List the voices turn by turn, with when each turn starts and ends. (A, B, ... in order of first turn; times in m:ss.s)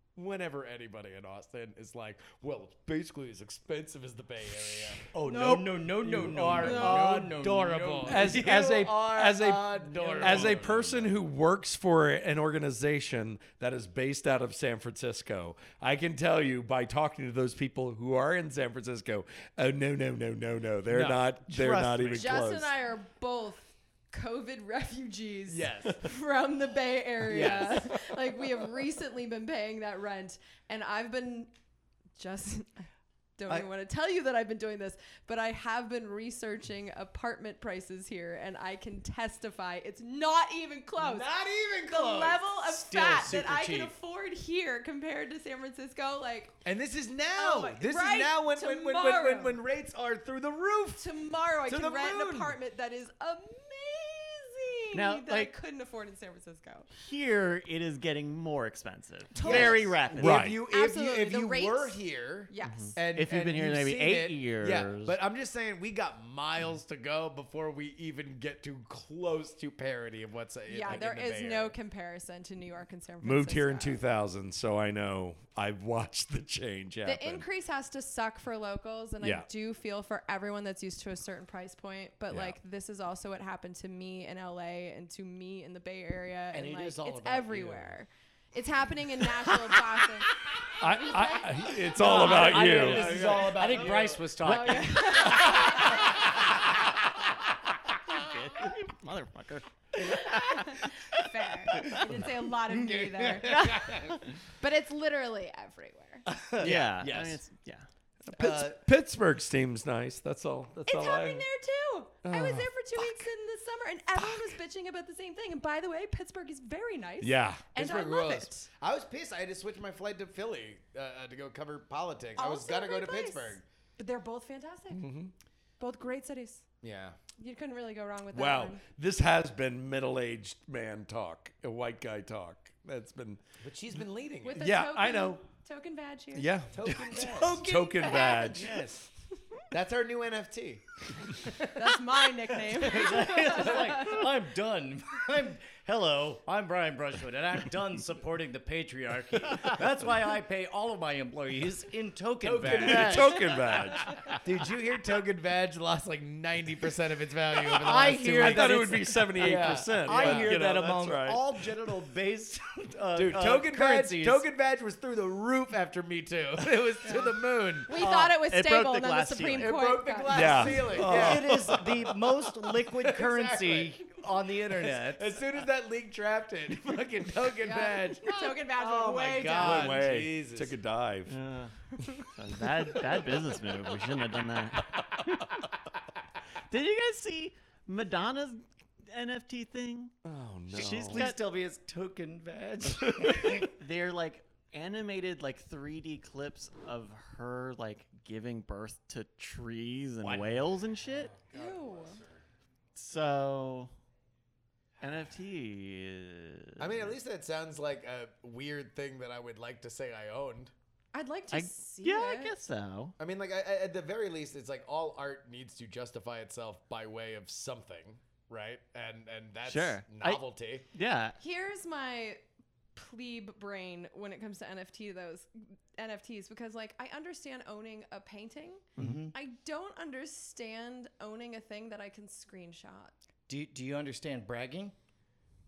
0:00.2-0:10.7 A
0:05.1-0:11.2 B
0:06.6-0:07.2 C
0:08.0-0:22.7 D
0:20.9-0:22.4 A
0:22.1-0:31.5 C
0:25.5-0:26.1 A
0:27.3-0:28.1 A
0:32.2-0:32.9 C
0:33.4-0:41.3 C
0:41.0-0:42.6 A
0:41.8-0:46.6 C
0:42.7-0:43.9 B
0:46.6-0:51.1 A
0:47.3-0:49.6 C
0:51.0-0:56.9 C
0:51.7-0:52.6 A
0:54.9-0:55.5 E
0:57.0-1:00.4 E
0:59.4-1:00.0 C
0:59.4-1:11.8 A
1:00.2-1:00.6 D
1:00.6-1:03.0 C
1:02.6-1:05.2 E
1:10.7-1:14.0 C
1:13.2-1:17.4 D
1:17.0-1:30.3 C
1:19.2-1:19.5 D
1:22.3-1:22.6 D
1:26.5-1:28.0 B
1:30.8-1:33.5 D
1:31.1-1:31.7 C
1:31.9-1:35.9 B
1:32.0-1:36.1 A
1:34.4-1:36.2 C
1:38.1-1:40.8 E
1:40.3-1:43.9 C
1:42.7-1:44.2 B
1:44.6-1:46.2 C
1:46.3-1:47.4 B
1:46.6-1:47.9 E
1:48.3-1:51.4 D
1:48.4-1:48.7 B
1:48.4-1:48.7 A
1:50.9-1:58.7 C
1:52.2-1:52.7 D
1:57.2-1:57.7 D
1:57.8-2:03.6 A
2:02.4-2:05.1 C
2:04.9-2:05.3 D
2:05.8-2:06.6 C
2:06.8-2:07.2 A
2:07.4-2:08.8 C
2:08.3-2:13.4 D
2:13.6-2:14.6 A
2:14.4-2:16.5 C
2:14.6-2:15.4 D
2:16.4-2:18.8 D
2:16.7-2:17.7 A
2:16.9-2:18.6 B
2:18.0-2:18.5 C
2:18.5-2:19.0 A
2:19.7-2:21.9 A
2:21.7-2:24.2 C
2:22.8-2:33.4 B
2:32.4-2:33.7 A
2:32.6-2:34.4 D
2:34.4-2:40.5 A
2:37.8-2:44.5 B
2:38.0-2:41.6 D
2:43.2-2:48.0 A
2:47.0-2:47.3 C
2:47.9-2:51.0 C
2:48.0-2:49.8 E
2:49.6-2:51.6 A
2:50.3-2:51.9 D
2:51.0-2:55.4 B
2:52.8-2:54.2 A
2:54.7-3:00.8 A
2:57.6-3:00.1 C
2:59.6-3:01.4 D
3:01.3-3:05.6 E
3:06.7-3:10.2 E
3:10.2-3:11.3 D
3:10.7-3:11.4 E
3:11.1-3:13.7 B
3:13.4-3:21.3 E
3:20.2-3:20.5 B
3:21.5-3:22.2 C
3:23.0-3:23.9 E
3:25.0-3:27.2 E
3:26.8-3:30.7 A
3:31.1-3:32.6 C
3:31.5-3:33.2 E
3:33.2-3:40.9 A
3:39.6-3:41.4 E
3:41.4-3:42.4 C
3:43.0-3:53.2 C
3:49.0-3:49.4 B
3:53.5-3:54.9 B